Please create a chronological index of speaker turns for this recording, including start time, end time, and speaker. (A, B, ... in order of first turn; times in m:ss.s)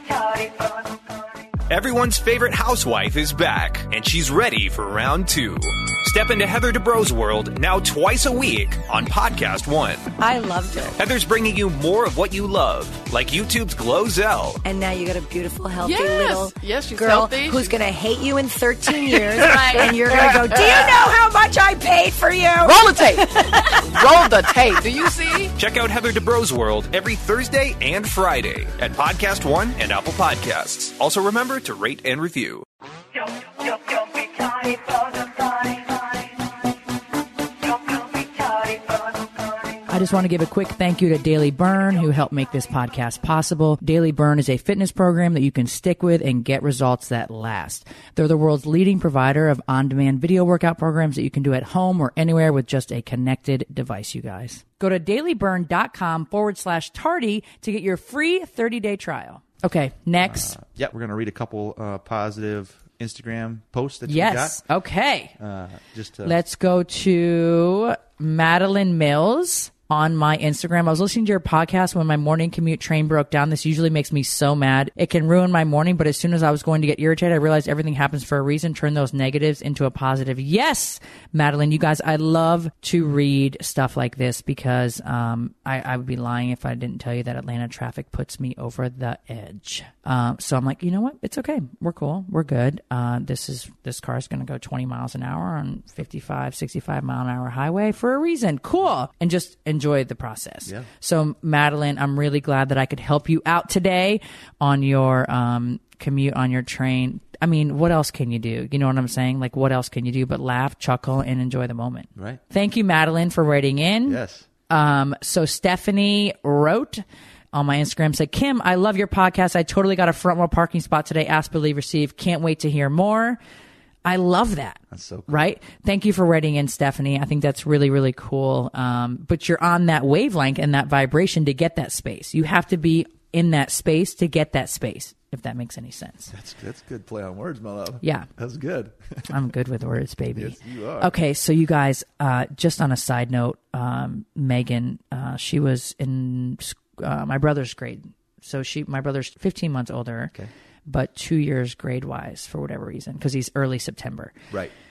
0:01.7-0:10.1 A
0:10.2-0:10.9 B
0:11.0-0:14.6 A
0:14.6-0:23.9 B
0:15.8-0:17.7 C
0:19.0-0:20.8 C
0:22.6-0:25.5 C
0:25.6-0:32.6 A
0:39.9-1:00.6 D
1:00.2-1:04.6 E
1:04.1-1:05.3 D
1:05.4-1:06.4 E
1:06.2-2:03.4 D
1:52.1-1:52.4 E
1:54.0-1:54.5 E
2:04.0-2:16.3 D
2:04.9-2:05.5 E
2:16.3-2:19.3 E
2:18.0-2:18.3 D
2:19.3-2:30.3 D
2:20.3-2:21.2 E
2:30.8-2:34.3 D